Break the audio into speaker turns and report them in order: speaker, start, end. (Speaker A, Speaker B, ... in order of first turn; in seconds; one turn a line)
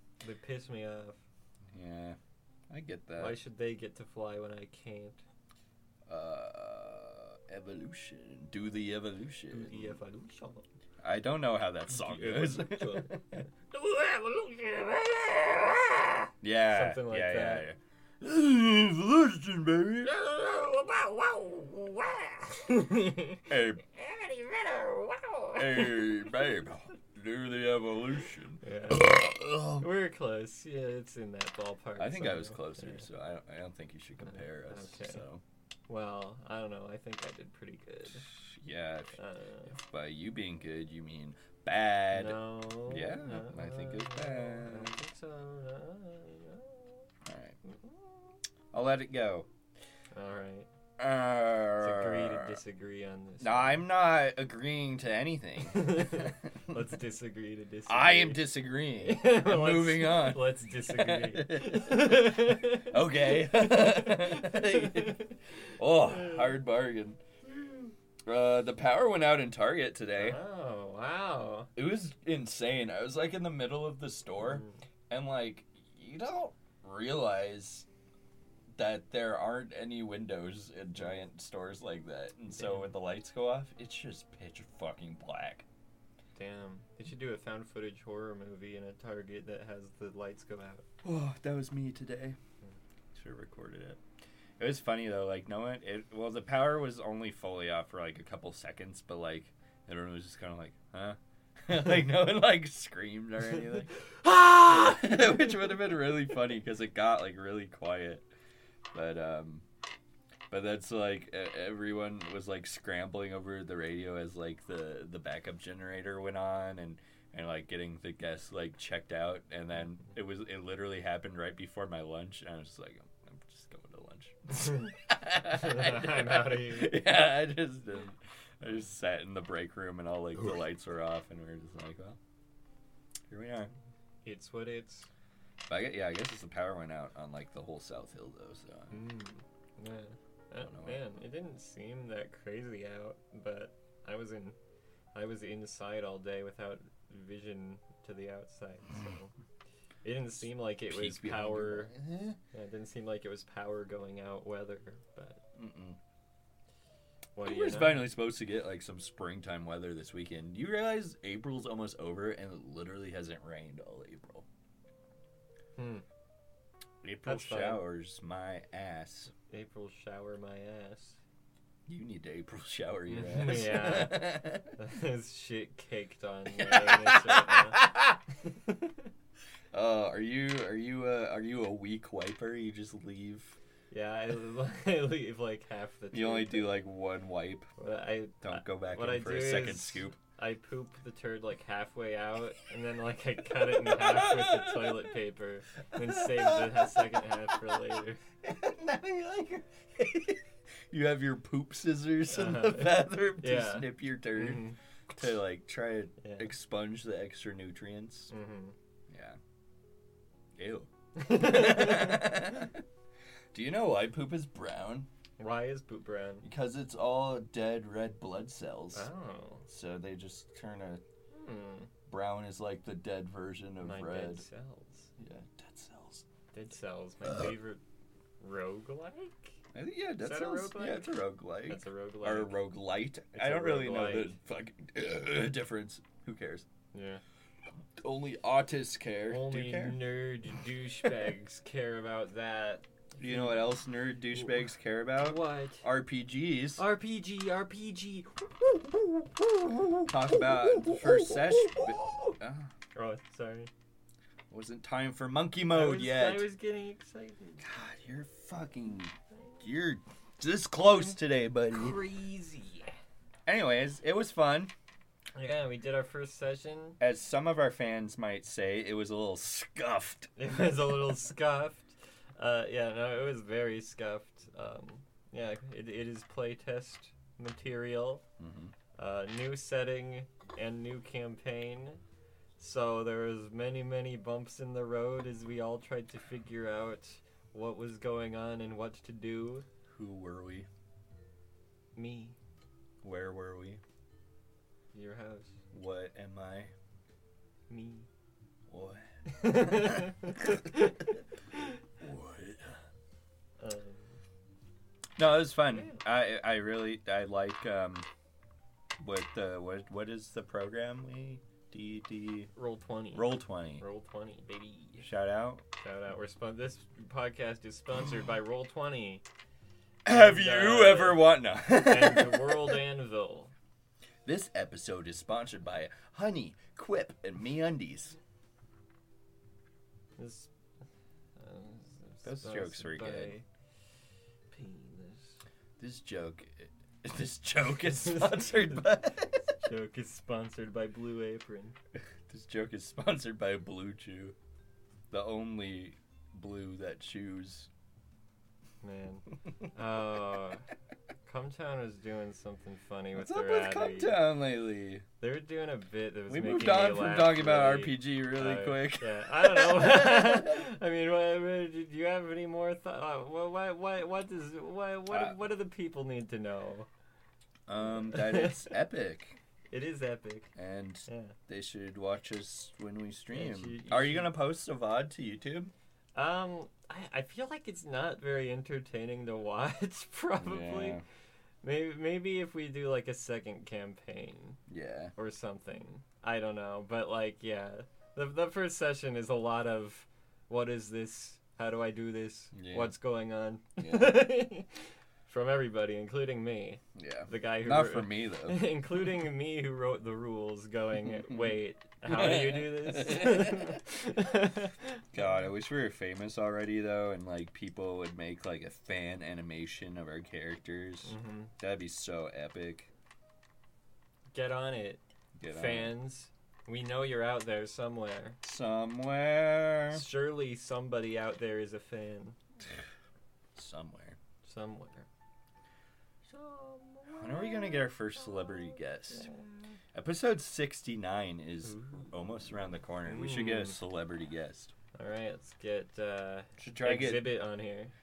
Speaker A: 0.2-1.2
Speaker B: 1.7-2.2
Speaker B: 2.7-3.4
Speaker A: 3.2-5.2
Speaker B: 6.0-10.0
Speaker A: 9.5-10.6
Speaker B: 11.0-13.4
Speaker A: 11.9-17.6
Speaker B: 16.4-22.2
Speaker A: 20.9-21.4
Speaker A: 22.5-23.5
Speaker B: 23.5-24.0
Speaker A: 24.1-26.2
Speaker B: 25.6-29.9
Speaker A: 28.6-33.0
Speaker B: 32.0-35.4
Speaker A: 34.2-35.2
Speaker A: 35.9-38.3
Speaker B: 38.3-39.2
Speaker A: 39.2-39.7
Speaker B: 39.7-45.0
Speaker A: 42.1-47.1
Speaker B: 47.2-47.6
Speaker A: 47.6-48.1
Speaker B: 48.7-49.5
Speaker A: 50.1-50.7
Speaker B: 51.0-52.6
Speaker A: 51.8-53.8
Speaker B: 53.4-56.3
Speaker A: 55.7-58.4
Speaker B: 57.9-70.4
Speaker A: 59.0-65.4
Speaker A: 66.1-66.5
Speaker A: 70.2-71.7
Speaker B: 71.8-77.9
Speaker A: 74.4-74.8
Speaker B: 78.8-85.7
Speaker A: 82.6-82.9
Speaker A: 86.3-90.8
Speaker B: 91.0-92.4
Speaker B: 93.1-94.0
Speaker B: 94.6-108.2
Speaker A: 104.9-105.2
Speaker B: 108.9-109.6
Speaker B: 110.5-132.2
Speaker A: 125.5-127.0
Speaker B: 133.3-133.7
Speaker A: 134.2-135.1
Speaker B: 135.7-139.0
Speaker A: 138.9-144.6
Speaker B: 140.6-141.0
Speaker A: 145.1-149.3
Speaker A: 150.0-151.9
Speaker B: 150.9-152.4
Speaker A: 152.5-155.4
Speaker B: 155.6-156.0
Speaker A: 157.3-158.1
Speaker B: 157.4-164.4
Speaker A: 165.8-166.0
Speaker B: 167.0-169.3
Speaker A: 167.2-167.8
Speaker A: 169.5-171.2
Speaker B: 171.9-174.7
Speaker A: 173.1-177.8
Speaker B: 176.5-178.2
Speaker A: 178.4-179.1
Speaker B: 179.7-183.6
Speaker A: 183.9-186.7
Speaker B: 186.1-187.7
Speaker A: 187.8-198.2
Speaker B: 188.4-190.2
Speaker B: 193.7-195.0
Speaker B: 195.9-208.3
Speaker A: 202.3-204.8
Speaker A: 206.2-206.5
Speaker A: 208.3-208.7
Speaker B: 209.1-209.4
Speaker B: 210.6-212.8
Speaker A: 211.2-212.5
Speaker B: 213.5-215.1
Speaker A: 215.4-216.4
Speaker B: 216.4-219.1
Speaker A: 218.9-219.7
Speaker B: 219.7-221.0
Speaker A: 221.3-221.9
Speaker B: 222.1-224.4
Speaker A: 223.8-225.1
Speaker B: 225.2-226.2
Speaker A: 226.5-227.8
Speaker A: 228.4-229.6
Speaker B: 229.7-236.7
Speaker A: 230.2-232.6
Speaker A: 233.3-234.4
Speaker A: 236.9-237.2
Speaker B: 237.9-240.1
Speaker A: 239.3-243.6
Speaker B: 243.2-246.8
Speaker A: 244.3-244.6
Speaker A: 245.2-245.8
Speaker A: 246.8-252.3
Speaker B: 250.1-252.7
Speaker A: 252.9-253.7
Speaker B: 254.5-256.5
Speaker A: 255.7-257.6
Speaker B: 257.6-262.0
Speaker A: 261.7-262.9
Speaker B: 263.4-264.7
Speaker A: 265.3-267.0
Speaker B: 267.0-270.3
Speaker A: 270.4-278.2
Speaker B: 278.4-278.7
Speaker A: 279.0-282.0
Speaker A: 282.6-289.6
Speaker B: 289.9-290.7
Speaker A: 291.9-292.4
Speaker B: 293.0-293.8
Speaker A: 294.9-295.5
Speaker B: 295.7-296.7
Speaker A: 297.7-298.1
Speaker B: 298.7-300.5
Speaker A: 299.3-301.7
Speaker B: 302.0-302.8
Speaker A: 303.6-304.2
Speaker B: 305.2-308.1
Speaker A: 305.7-306.0
Speaker B: 309.0-312.5
Speaker A: 312.5-315.1
Speaker B: 313.1-313.8
Speaker B: 315.0-315.6
Speaker A: 315.8-319.2
Speaker B: 320.0-322.8
Speaker A: 320.1-323.5
Speaker B: 324.2-328.2
Speaker A: 330.2-330.5
Speaker A: 331.4-333.4
Speaker B: 332.2-333.3
Speaker A: 334.5-335.4
Speaker B: 335.8-339.3
Speaker A: 338.0-341.8
Speaker B: 342.3-344.4
Speaker B: 345.1-347.7
Speaker A: 348.8-350.7
Speaker A: 351.2-354.2
Speaker B: 353.1-355.0
Speaker A: 355.2-366.9
Speaker B: 356.3-360.5
Speaker B: 365.1-365.4
Speaker B: 367.7-369.4
Speaker A: 368.1-368.7
Speaker A: 369.7-370.5
Speaker B: 370.6-375.7
Speaker A: 371.1-371.4
Speaker A: 373.3-374.3
Speaker A: 376.1-381.0
Speaker B: 380.4-381.0
Speaker A: 381.6-384.6
Speaker B: 384.7-385.1
Speaker A: 385.1-394.7
Speaker B: 392.5-392.9
Speaker B: 393.8-394.3
Speaker A: 395.3-405.0
Speaker B: 396.9-398.6
Speaker B: 401.1-401.5
Speaker B: 402.0-403.8
Speaker B: 405.1-412.9
Speaker A: 411.1-411.5
Speaker A: 414.3-418.4
Speaker B: 415.4-415.9
Speaker B: 418.4-420.0
Speaker A: 419.9-422.4
Speaker B: 423.5-424.2
Speaker A: 424.4-425.1
Speaker A: 426.3-429.7
Speaker B: 427.1-429.3
Speaker B: 429.9-434.7
Speaker A: 431.6-432.1
Speaker A: 433.0-433.8
Speaker A: 434.9-437.9
Speaker B: 436.6-437.3